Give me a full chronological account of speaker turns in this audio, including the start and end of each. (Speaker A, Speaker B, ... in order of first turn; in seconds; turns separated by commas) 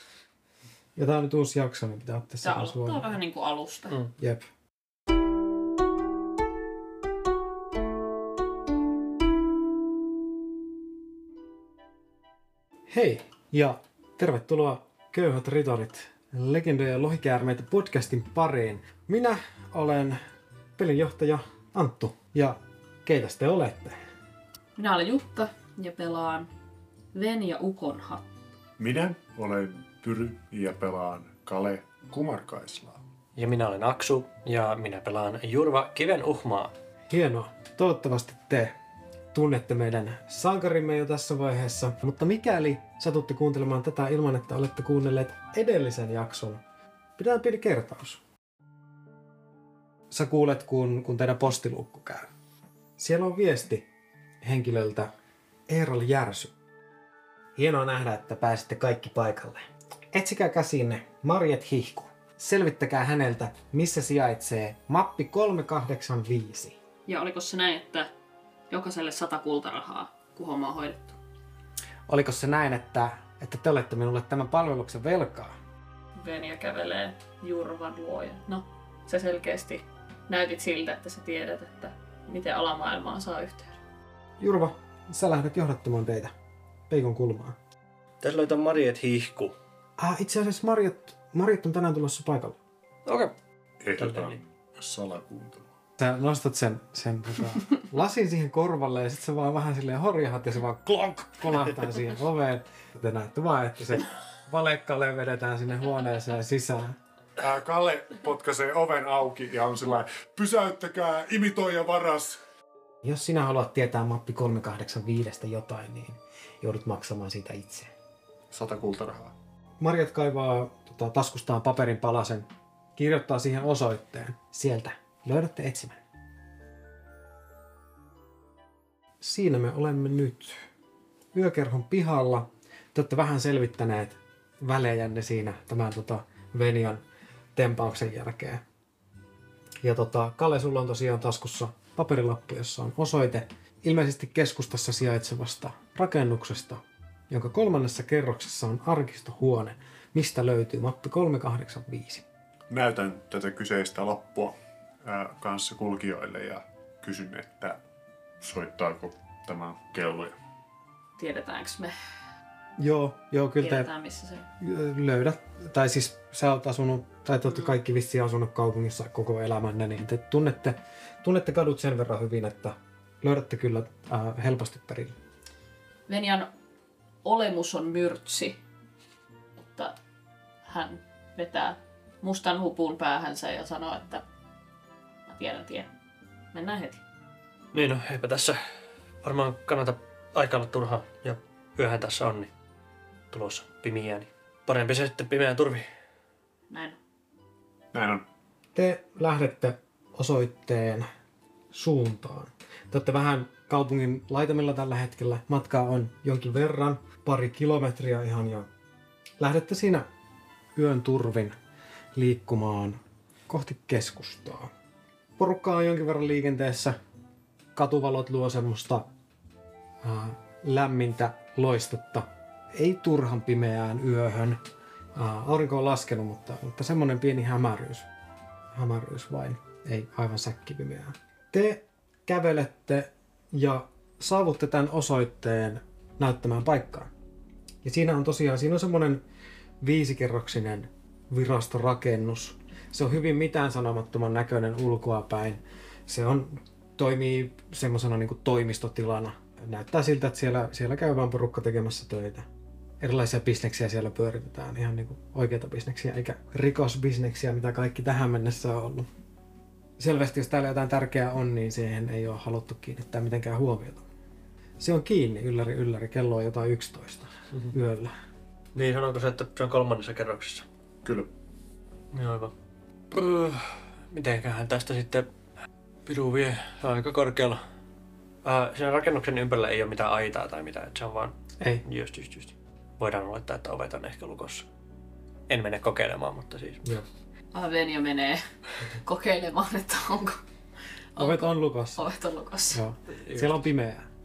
Speaker A: 1.0-3.1, Speaker B: 2.4-4.0, Speaker A: 4.2-4.5, Speaker A: 12.9-20.2, Speaker A: 20.8-24.0, Speaker B: 24.8-26.5, Speaker B: 27.1-28.3, Speaker C: 28.8-33.0, Speaker D: 33.4-36.7, Speaker A: 37.1-38.7, Speaker A: 39.3-46.6, Speaker A: 47.2-48.2, Speaker A: 50.1-52.3, Speaker A: 53.0-53.9, Speaker A: 54.4-55.1, Speaker A: 55.7-56.5, Speaker A: 57.6-66.8, Speaker B: 67.1-68.1, Speaker B: 68.7-71.2, Speaker A: 72.1-75.6, Speaker B: 76.2-83.8, Speaker A: 84.4-86.3, Speaker A: 86.9-87.6, Speaker D: 88.2-89.6, Speaker A: 90.0-92.6, Speaker D: 93.1-93.3, Speaker C: 93.8-95.7, Speaker D: 94.0-94.3, Speaker A: 96.0-107.0, Speaker C: 107.4-112.4, Speaker A: 113.0-117.9, Speaker C: 118.5-119.3, Speaker A: 119.8-126.0, Speaker A: 129.2-130.6, Speaker A: 131.3-137.0, Speaker A: 137.6-138.6, Speaker A: 139.8-152.2, Speaker C: 152.7-157.8, Speaker C: 158.4-160.4, Speaker B: 161.2-161.9, Speaker A: 162.8-163.9, Speaker B: 163.6-164.5, Speaker A: 164.6-175.2, Speaker B: 176.1-176.5, Speaker B: 177.2-178.6, Speaker B: 179.6-180.0, Speaker B: 180.7-184.2, Speaker B: 185.3-185.9, Speaker B: 186.5-187.0, Speaker D: 187.7-188.6, Speaker D: 189.2-192.5, Speaker D: 193.3-195.9, Speaker B: 196.7-197.0, Speaker C: 197.9-198.2, Speaker A: 198.8-201.1, Speaker A: 201.7-208.7, Speaker A: 209.4-210.1, Speaker A: 210.8-211.6, Speaker A: 212.2-214.7, Speaker A: 215.4-217.0, Speaker A: 217.8-219.1, Speaker A: 220.0-224.6, Speaker A: 225.2-228.1, Speaker A: 228.7-237.1, Speaker A: 237.8-239.2, Speaker A: 239.8-252.5, Speaker A: 253.0-259.1, Speaker A: 260.0-264.1, Speaker A: 264.8-268.1, Speaker D: 268.8-270.7, Speaker C: 271.0-271.3, Speaker D: 272.1-272.5, Speaker D: 273.1-275.3, Speaker D: 276.1-277.6, Speaker D: 278.4-281.3, Speaker D: 281.9-284.7, Speaker D: 285.5-286.8, Speaker B: 287.5-290.4, Speaker B: 291.2-292.8, Speaker A: 291.2-292.0, Speaker A: 292.7-294.1, Speaker D: 293.2-293.6